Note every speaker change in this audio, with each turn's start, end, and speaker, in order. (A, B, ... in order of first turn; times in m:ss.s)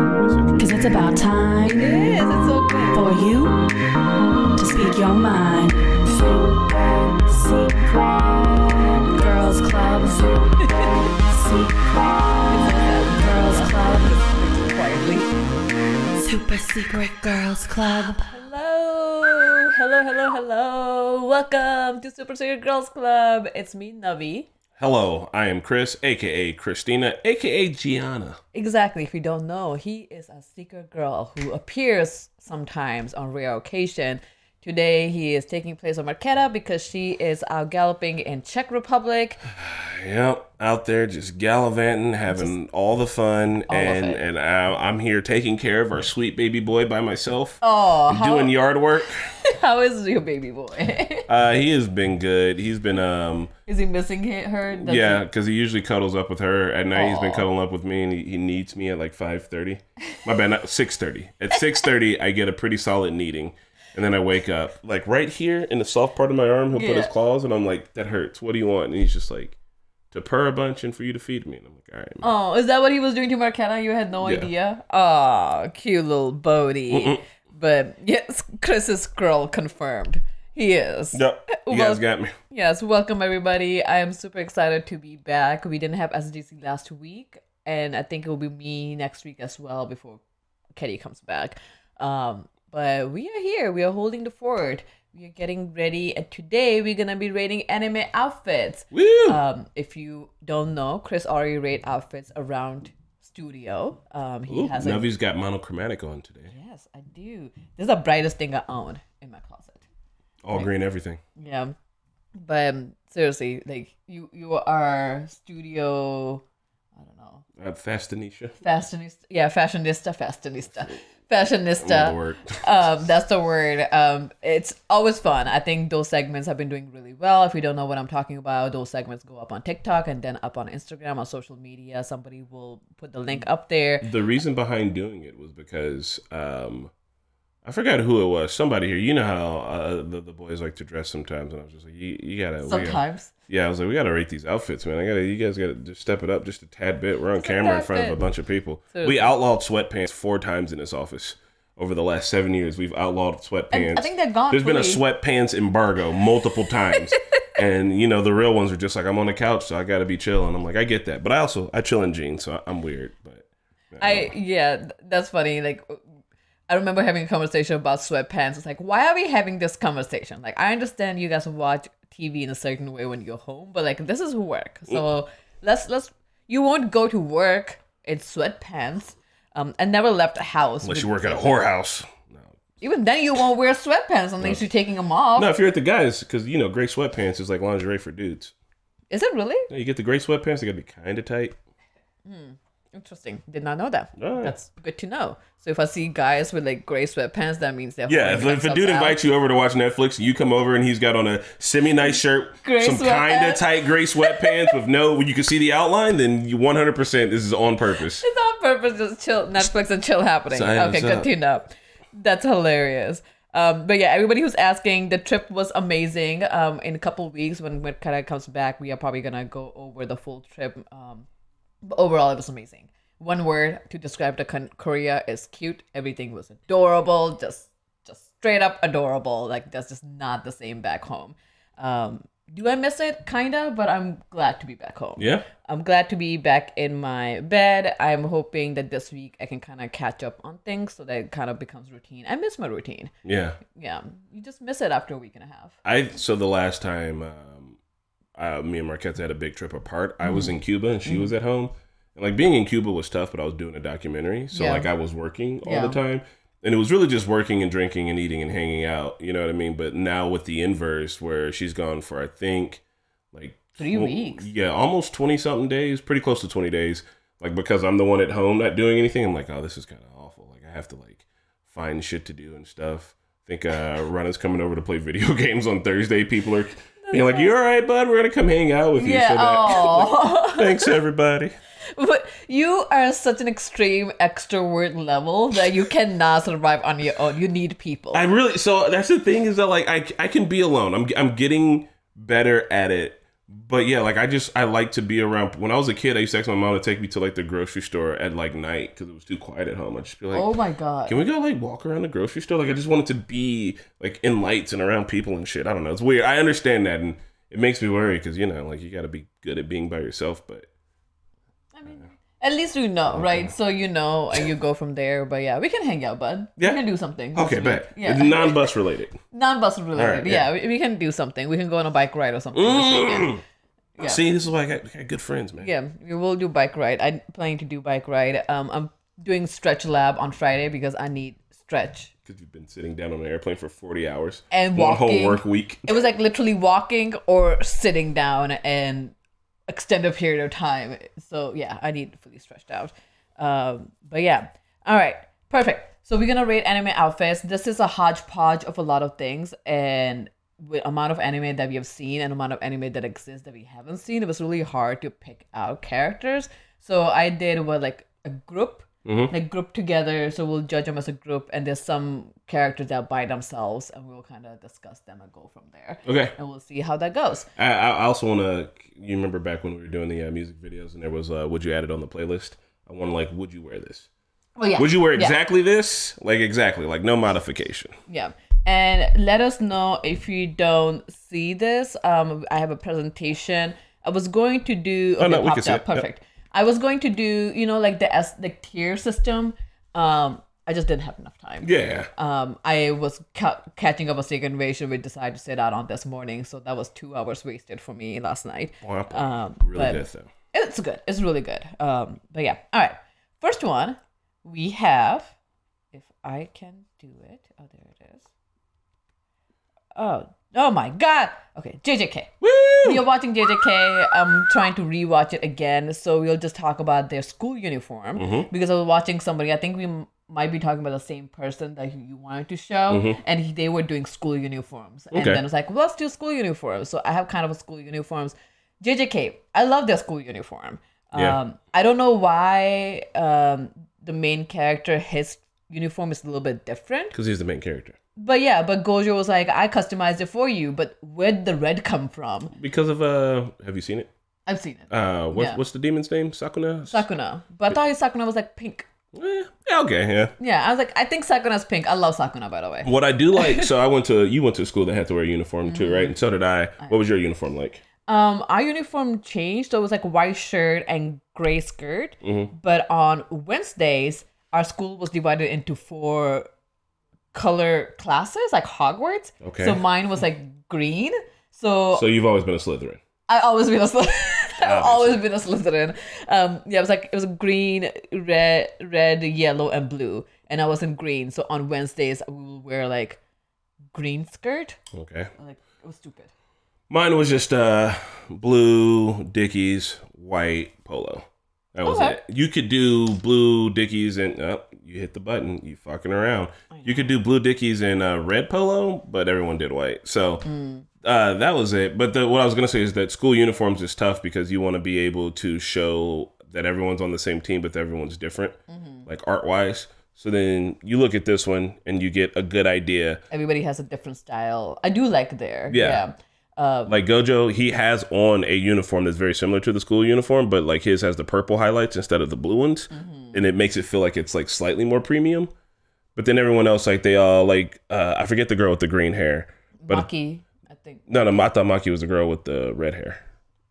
0:00.1-0:00.9 A
0:00.6-0:02.0 B
0:01.7-0:03.0 C
0:02.9-0:03.6 B
0:04.6-0:08.4 B
0:09.1-0:10.4 B
0:11.2-0:14.2 B
0:12.5-0:15.3 C
0:16.1-0:18.3 B
0:18.3-0:24.5 C
0:24.8-0:28.4 A
0:28.5-0:39.4 C
0:39.5-0:49.3 A
0:43.7-0:44.2 C
0:47.6-0:48.5 C
0:49.4-0:51.3 C
0:51.3-0:53.5 A
0:53.7-0:55.2 C
0:54.7-1:09.6 A
0:56.9-0:57.5 C
1:06.7-1:07.1 C
1:10.1-1:12.3 A
1:12.2-1:30.2 C
1:14.2-1:14.5 A
1:16.9-1:17.2 A
1:21.1-1:22.3 A
1:30.8-1:45.0 C
1:38.9-1:39.4 A
1:44.5-1:46.5 A
1:46.5-1:49.8 C
1:50.4-1:51.2 A
1:51.4-1:51.7 C
1:52.4-1:56.4 C
1:57.0-1:57.4 C
1:57.6-1:58.5 A
1:58.6-2:14.1 C
2:01.8-2:02.6 A
2:14.0-2:16.9 A
2:17.6-2:44.3 A
2:22.6-2:23.3 C
2:27.4-2:28.2 C
2:28.9-2:29.3 C
2:33.7-2:35.0 C
2:36.9-2:37.4 C
2:44.0-2:46.0 C
2:46.7-3:01.6 C
3:00.8-3:02.5 A
3:02.8-3:05.5 C
3:05.4-3:08.5 A
3:09.1-3:09.7 C
3:09.7-3:11.5 A
3:12.2-3:19.2 C
3:14.2-3:14.5 A
3:18.1-3:28.2 A
3:22.6-3:24.8 C
3:28.2-3:41.2 C
3:30.5-3:31.3 A
3:41.8-4:03.1 C
3:55.2-3:55.4 A
4:03.2-4:03.6 A
4:03.7-4:05.8 C
4:05.8-4:07.8 A
4:08.4-4:22.8 A
4:10.2-4:10.5 C
4:11.0-4:11.3 C
4:14.5-4:14.9 C
4:15.6-4:16.0 C
4:23.3-4:41.6 A
4:23.8-4:24.5 C
4:37.0-4:37.5 C
4:39.0-4:40.9 C
4:41.9-4:48.2 C
4:48.1-5:00.5 A
5:00.3-5:01.2 C
5:01.1-5:10.7 A
5:11.7-5:18.7 C
5:13.1-5:13.5 A
5:17.3-5:19.2 A
5:19.3-5:23.4 C
5:19.9-5:20.5 A
5:22.5-5:23.4 A
5:24.0-5:25.7 A
5:25.6-5:32.1 C
5:32.2-5:35.9 A
5:34.5-5:39.1 C
5:39.7-6:07.5 C
5:59.0-5:59.3 A
6:06.0-6:06.3 A
6:07.6-6:14.1 A
6:14.6-6:15.4 C
6:14.8-6:18.0 A
6:18.1-6:45.3 C
6:25.2-6:26.0 A
6:31.6-6:32.1 A
6:38.8-6:40.3 A
6:45.9-6:48.2 C
6:49.9-6:52.3 C
6:52.4-6:53.0 A
6:52.8-7:17.1 C
6:58.2-6:58.5 A
7:02.9-7:03.2 A
7:05.1-7:05.4 A
7:17.1-7:18.0 A
7:18.2-7:22.5 C
7:22.5-7:24.1 A
7:24.5-7:25.6 C
7:24.9-7:27.0 A
7:26.9-7:28.9 C
7:29.1-7:30.3 A
7:30.4-7:33.7 C
7:32.8-7:37.8 A
7:35.6-7:36.1 C
7:38.0-7:46.5 C
7:42.2-7:42.5 A
7:47.3-7:52.0 C
7:49.4-7:49.8 A
7:51.9-7:53.0 A
7:53.3-8:03.2 C
7:54.6-7:55.2 A
8:03.9-8:04.8 C
8:04.9-8:05.3 A
8:05.4-8:06.3 C
8:06.9-8:20.5 A
8:11.8-8:12.2 C
8:16.7-8:17.0 C
8:20.4-8:20.8 C
8:21.0-8:33.2 A
8:28.7-8:29.1 C
8:33.3-8:37.0 C
8:35.7-8:36.0 A
8:36.9-8:45.5 A
8:42.9-8:43.4 C
8:46.1-8:50.1 A
8:49.8-8:51.1 C
8:51.1-8:53.2 A